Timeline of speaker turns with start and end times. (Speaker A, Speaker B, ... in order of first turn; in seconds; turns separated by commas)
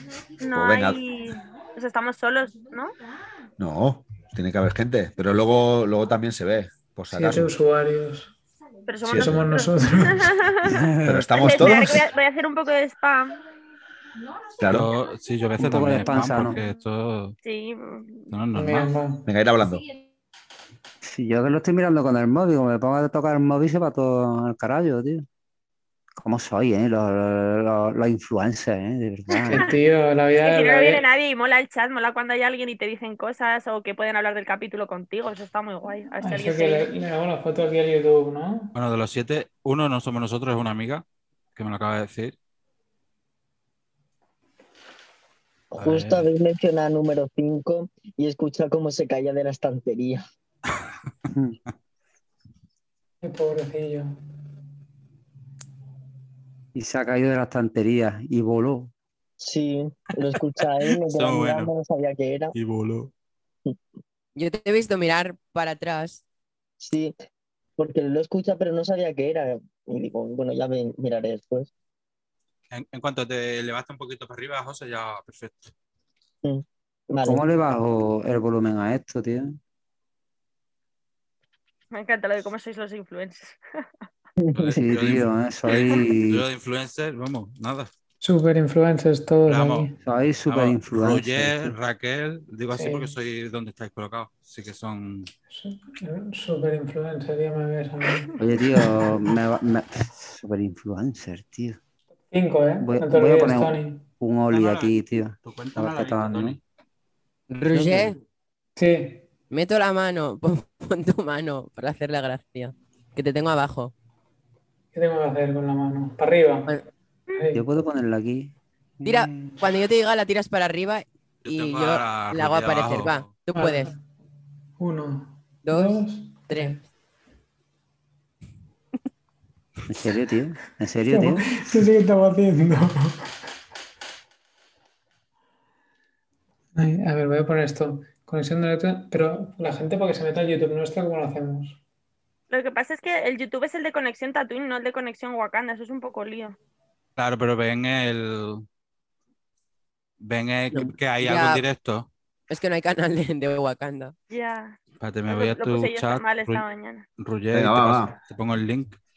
Speaker A: 0.4-3.0, Speaker B: 0.5-1.0, Speaker B: 3.6-7.5, Speaker C: 7.1-8.3, Speaker A: 8.9-13.4, Speaker B: 9.1-9.5, Speaker C: 9.1-10.5, Speaker D: 10.6-11.3, Speaker B: 11.0-12.1, Speaker B: 14.6-14.9, Speaker E: 14.7-17.4, Speaker D: 15.6-16.6, Speaker A: 17.4-18.3, Speaker E: 18.3-18.9, Speaker C: 18.5-19.3, Speaker B: 19.3-19.9, Speaker D: 21.0-25.3, Speaker D: 26.2-29.7, Speaker C: 29.5-31.1, Speaker A: 30.4-36.9, Speaker C: 36.2-38.7, Speaker E: 38.8-41.0, Speaker E: 41.6-42.4, Speaker F: 45.7-50.2, Speaker E: 45.8-46.3, Speaker D: 51.3-51.6, Speaker C: 53.2-54.2, Speaker D: 56.8-58.9, Speaker F: 59.4-62.5, Speaker E: 61.1-61.7, Speaker E: 62.5-63.1, Speaker G: 64.4-66.2, Speaker F: 66.8-67.2, Speaker F: 67.8-71.7, Speaker E: 72.7-75.7, Speaker F: 76.4-77.5, Speaker D: 77.2-79.6, Speaker A: 81.9-83.9, Speaker F: 84.4-84.8, Speaker E: 84.5-87.9, Speaker D: 84.7-86.5, Speaker C: 88.2-90.0, Speaker E: 89.5-89.9, Speaker D: 90.0-91.7, Speaker E: 90.5-95.3, Speaker C: 92.7-93.1, Speaker C: 95.5-99.4, Speaker D: 98.4-101.8, Speaker C: 102.3-104.0, Speaker D: 102.8-106.6, Speaker E: 104.5-106.6, Speaker G: 107.5-108.2, Speaker D: 107.7-108.1, Speaker C: 108.8-109.2, Speaker G: 109.5-113.9, Speaker C: 114.9-116.8, Speaker C: 117.3-117.7, Speaker D: 117.5-118.5, Speaker G: 119.0-123.9, Speaker C: 119.1-119.6, Speaker E: 121.5-123.3, Speaker C: 123.5-124.0, Speaker C: 124.8-126.8, Speaker G: 125.7-126.8, Speaker D: 129.9-131.6, Speaker C: 131.1-133.2, Speaker C: 136.8-141.8, Speaker A: 142.5-146.6, Speaker E: 147.2-148.7, Speaker E: 150.2-152.1, Speaker G: 150.7-151.6, Speaker G: 152.5-154.1, Speaker A: 154.3-157.1, Speaker E: 155.0-156.7, Speaker E: 157.2-159.0, Speaker B: 157.5-158.2